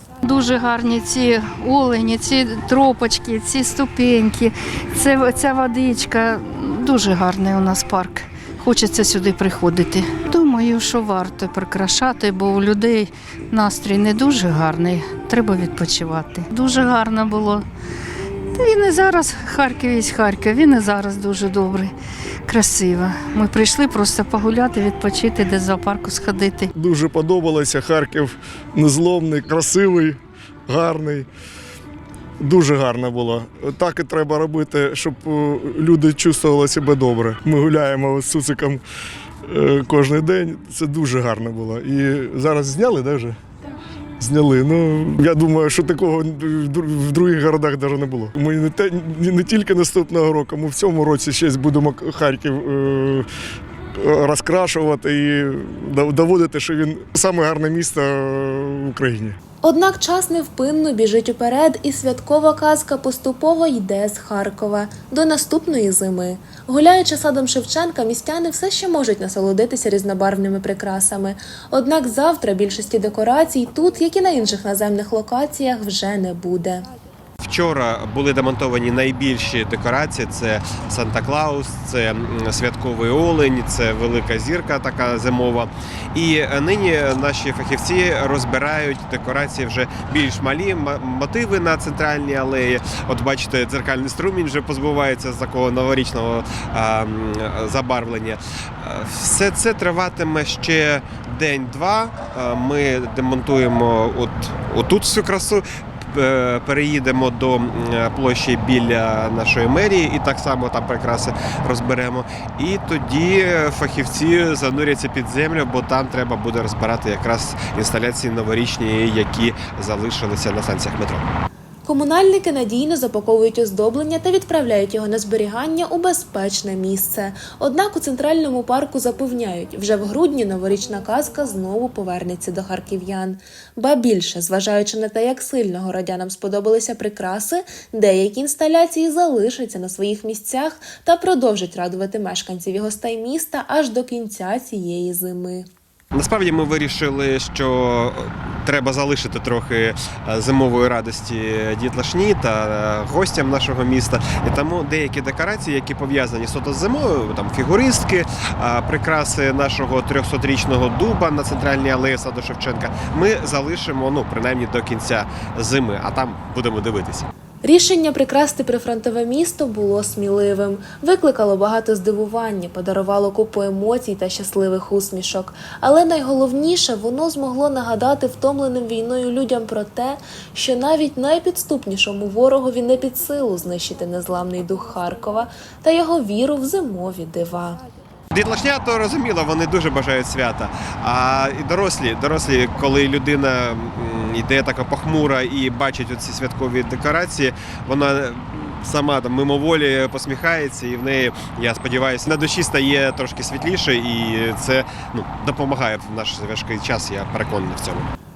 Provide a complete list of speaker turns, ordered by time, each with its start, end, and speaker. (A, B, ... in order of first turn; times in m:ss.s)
0:00.2-0:17.7 A
0:18.5-0:21.9 A
0:22.5-0:26.7 A
0:26.8-0:31.3 B
0:32.4-0:38.8 B
0:39.5-0:43.4 B
0:44.2-0:53.3 B
0:54.0-0:59.4 B
0:59.6-1:16.9 C
1:17.4-2:01.3 D
2:01.8-2:25.7 C
2:26.1-2:47.3 D
2:47.6-3:07.8 C
3:08.3-3:28.1 D